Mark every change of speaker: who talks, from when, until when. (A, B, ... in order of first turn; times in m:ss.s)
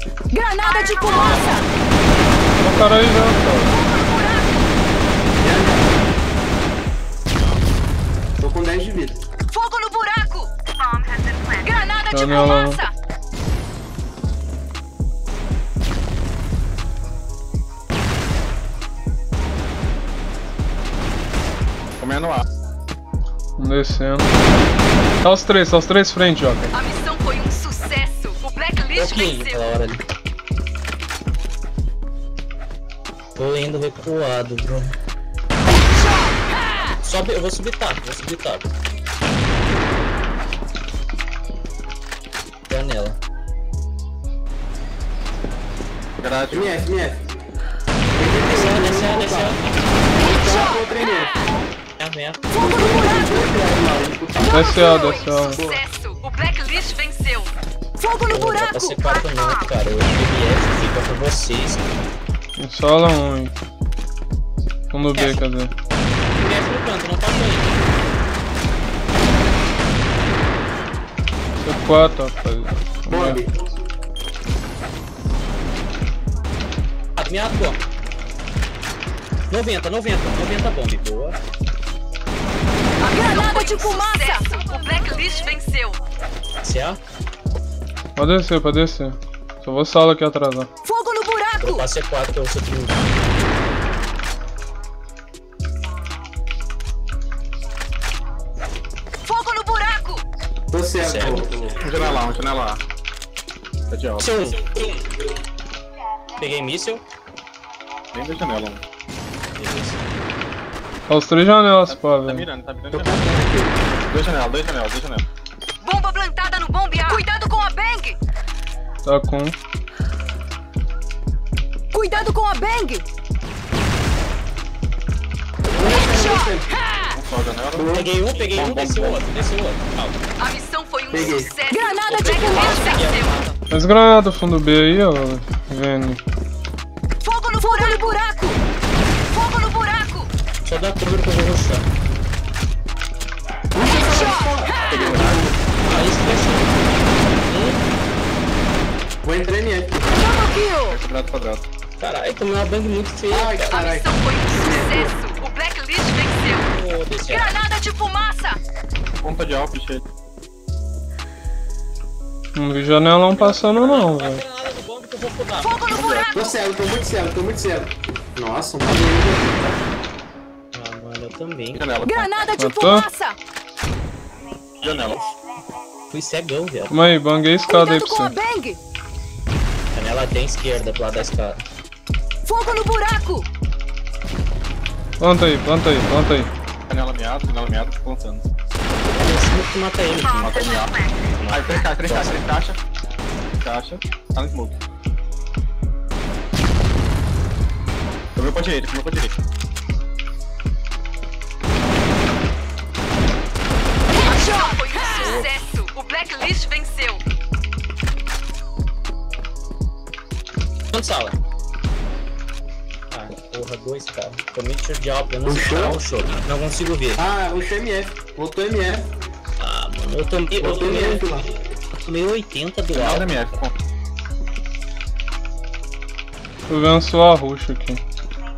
0:00.3-0:01.7 A
0:01.1-0:01.5 B
0:02.6-0:03.8 C
0:03.7-0:04.7 A
0:05.4-0:05.9 D
0:08.4-0:09.2 D
0:09.5-0:10.5 A
0:11.4-0:12.9 A
0:12.1-0:12.8 C
0:22.0-0:22.4 B
0:23.6-0:24.3 C
0:25.2-0:26.7 C
0:26.7-0:29.6 A
0:28.9-0:30.0 E
0:33.4-0:34.9 E
0:35.8-0:37.0 A
0:37.0-0:38.7 E
0:42.7-0:43.2 E
0:46.2-0:46.9 B
0:46.5-0:47.2 D
0:48.2-0:49.6 D
0:48.4-0:49.6 E
0:50.2-0:51.3 D
0:50.2-0:51.5 A
0:52.0-0:52.4 E
0:52.5-0:53.4 A
0:52.5-0:54.6 D
0:54.4-0:55.6 C
0:54.5-0:59.0 A
0:55.5-0:55.8 D
0:58.2-1:01.8 E
1:02.6-1:03.5 C
1:04.9-1:05.7 C
1:05.1-1:05.4 E
1:06.3-1:07.8 E
1:11.6-1:13.4 C
1:13.1-1:13.5 D
1:17.2-1:17.8 E
1:19.5-1:21.4 E
1:23.0-1:26.0 A
1:26.6-1:27.0 E
1:28.2-1:30.7 C
1:30.8-1:31.8 A
1:31.6-1:33.1 E
1:39.2-1:40.2 A
1:40.7-1:42.0 D
1:41.0-1:41.5 E
1:41.8-1:42.8 B
1:43.9-1:44.3 B
1:44.2-1:45.0 E
1:46.4-1:47.0 E
1:48.1-1:48.8 B
1:49.6-1:50.0 E
1:51.1-1:52.5 C
1:51.8-1:55.2 B
1:52.9-1:53.8 D
1:55.8-1:58.2 A
1:59.0-1:59.6 C
2:01.9-2:03.0 A
2:05.7-2:06.7 D
2:06.0-2:07.1 A
2:07.1-2:09.3 B
2:07.7-2:08.1 D
2:07.9-2:10.2 E
2:10.4-2:13.3 A
2:11.1-2:11.5 D
2:12.0-2:13.6 E
2:13.7-2:16.2 C
2:17.2-2:18.6 A
2:19.3-2:20.3 A
2:20.6-2:21.9 E
2:23.7-2:25.6 D
2:24.0-2:24.8 A
2:24.9-2:25.5 B
2:25.8-2:26.8 E
2:27.5-2:27.8 E
2:29.2-2:30.1 D
2:30.1-2:31.0 A
2:30.9-2:31.6 B
2:32.0-2:33.9 E
2:33.3-2:35.1 D
2:33.7-2:36.7 A
2:36.7-2:37.6 E
2:37.3-2:38.6 A
2:39.2-2:40.0 B
2:42.5-2:44.4 C
2:43.3-2:44.0 B
2:43.4-2:46.0 E
2:45.6-2:46.3 A
2:45.8-2:46.3 B
2:46.3-2:49.8 D
2:50.7-2:52.0 E
2:51.7-2:52.5 B
2:52.0-2:53.4 A
2:52.6-2:53.1 C
2:54.8-2:55.3 B
2:56.1-2:57.0 E
2:56.9-2:58.3 C
2:57.7-2:58.8 A
2:59.9-3:01.6 E
3:02.5-3:03.4 A
3:05.2-3:06.5 C
3:06.9-3:08.5 B
3:09.1-3:12.4 E
3:10.4-3:12.8 B
3:13.6-3:14.8 B
3:18.4-3:19.3 B
3:24.2-3:27.2 A
3:25.0-3:25.6 B
3:30.9-3:31.4 E
3:33.1-3:37.2 E
3:35.4-3:36.0 D
3:37.2-3:39.1 D
3:39.6-3:41.3 E
3:40.6-3:41.5 D
3:42.0-3:43.6 E
3:42.9-3:43.7 B
3:46.7-3:48.0 C